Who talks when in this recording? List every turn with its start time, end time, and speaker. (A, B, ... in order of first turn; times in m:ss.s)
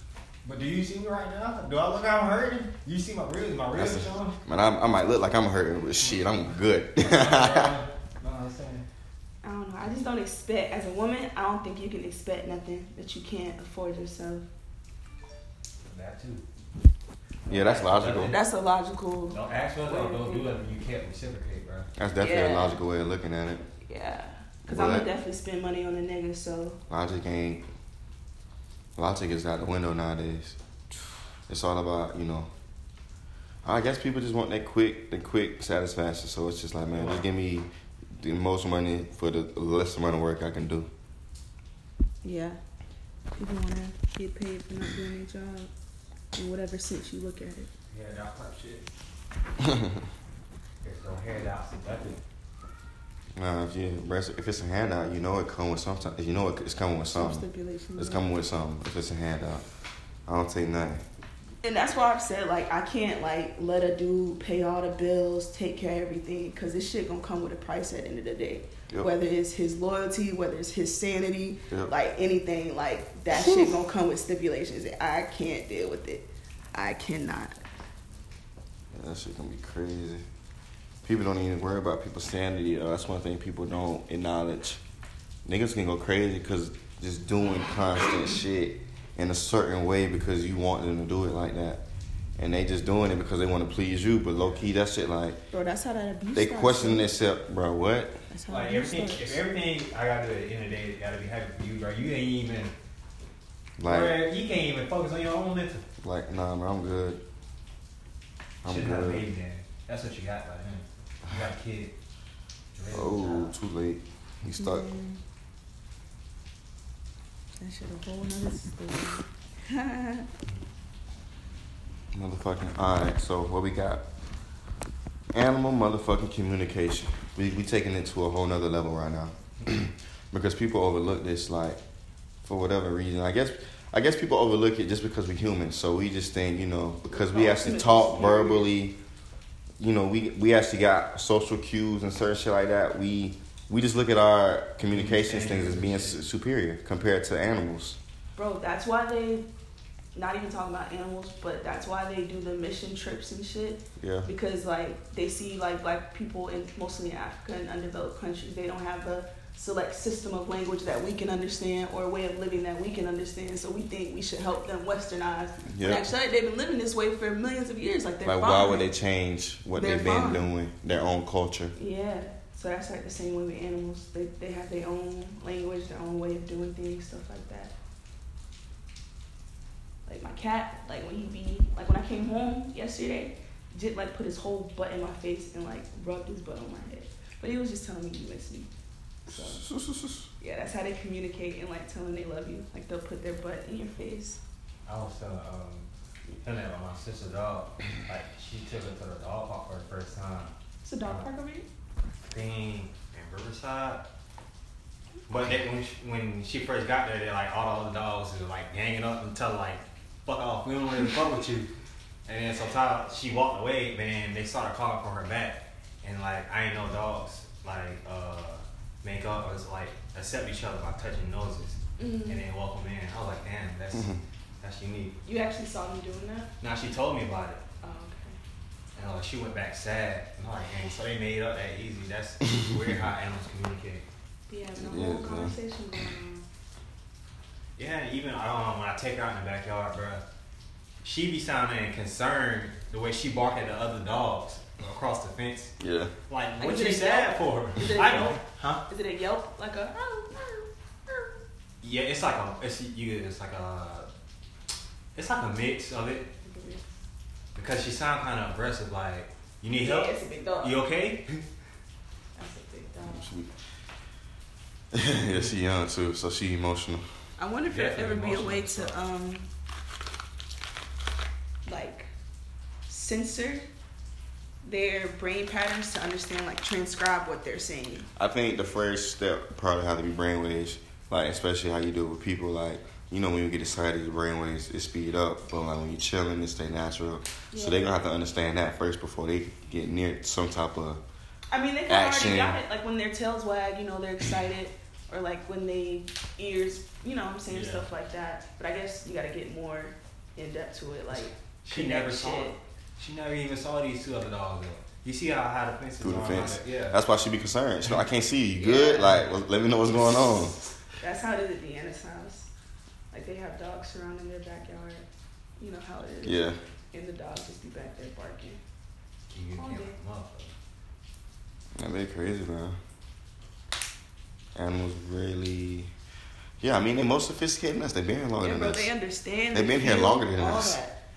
0:00.4-0:04.4 A
0:03.7-0:07.8 B
0:06.0-0:06.3 A
0:07.0-0:08.8 A
0:09.4-0:14.5 C
0:15.9-0:16.4 A
0:17.4-0:18.4 A
0:17.5-0:18.3 B
0:18.3-0:20.5 C
0:19.3-0:21.9 A
0:22.0-0:23.6 B
0:22.2-0:22.8 C
0:23.8-0:26.8 C
0:24.7-0:25.1 B
0:26.9-0:27.6 B
0:29.0-0:32.5 B
0:33.6-0:40.9 B
0:36.9-0:37.2 A
0:42.2-0:42.6 C
0:43.3-0:45.7 C
0:46.3-0:47.7 C
0:47.9-0:48.9 A
0:49.6-0:50.0 B
0:50.8-0:52.2 A
0:53.4-0:57.4 B
0:57.1-0:58.3 C
0:58.0-0:59.6 B
1:00.3-1:01.0 B
1:01.6-1:17.6 C
1:18.9-1:20.2 B
1:21.0-1:24.8 B
1:25.4-1:31.8 B
1:32.4-1:35.4 B
1:35.5-1:37.1 C
1:36.3-1:38.2 B
1:38.3-1:39.4 C
1:38.5-1:42.7 A
1:43.8-1:44.2 B
1:43.8-1:45.8 A
1:46.0-1:47.2 B
1:48.6-1:49.2 B
1:48.6-1:51.9 A
1:52.7-1:53.5 A
1:52.9-1:54.9 B
1:54.5-1:55.2 C
1:57.6-2:00.3 C
2:02.1-2:04.0 B
2:05.3-2:11.8 B
2:12.4-2:19.0 B
2:17.1-2:18.7 C
2:19.8-2:28.0 B
2:24.9-2:26.2 A
2:28.4-2:29.5 C
2:30.1-2:48.9 C
2:34.0-2:34.3 B
2:45.7-2:46.0 B
2:48.2-2:51.7 B
2:49.8-2:50.4 C
2:51.8-2:57.7 C
3:00.1-3:08.7 C
3:09.3-3:09.6 C
3:09.3-3:10.3 B
3:10.4-3:14.4 C
3:14.8-3:15.9 A
3:16.4-3:20.5 A
3:20.8-3:21.7 C
3:22.3-3:24.0 A
3:25.3-3:31.7 A
3:32.2-3:45.2 A
3:42.0-3:42.4 C
3:43.9-3:44.2 B
3:45.2-3:46.5 C
3:46.6-3:47.6 A
3:47.8-3:48.4 C
3:48.9-3:54.0 A
3:54.5-3:56.4 C
3:54.8-3:55.5 B
3:57.8-4:00.2 A
4:01.0-4:05.7 A
4:05.8-4:06.1 B
4:06.3-4:08.8 A
4:06.6-4:11.3 C
4:11.8-4:14.1 A
4:15.1-4:16.3 A
4:16.4-4:16.8 C
4:17.5-4:21.4 A
4:19.8-4:20.8 C
4:22.4-4:23.3 C
4:23.1-4:23.5 B
4:24.9-4:27.0 B
4:27.4-4:29.5 C
4:27.7-4:29.0 A
4:31.6-4:32.1 C
4:32.9-4:33.6 C
4:34.6-4:38.1 C
4:38.2-4:51.0 B
4:47.5-4:48.0 C
4:51.5-5:02.5 C
4:51.9-4:52.6 B
4:57.5-4:57.8 A
5:01.1-5:07.0 A
5:06.0-5:10.6 B
5:08.6-5:09.2 C
5:11.0-5:12.5 C
5:13.1-5:15.0 C
5:15.6-5:18.6 C
5:16.2-5:16.6 B
5:19.3-5:20.5 A
5:19.6-5:19.9 C
5:21.8-5:22.8 B
5:24.5-5:25.9 B
5:26.6-5:28.9 B
5:28.4-5:31.0 C
5:29.5-5:30.8 B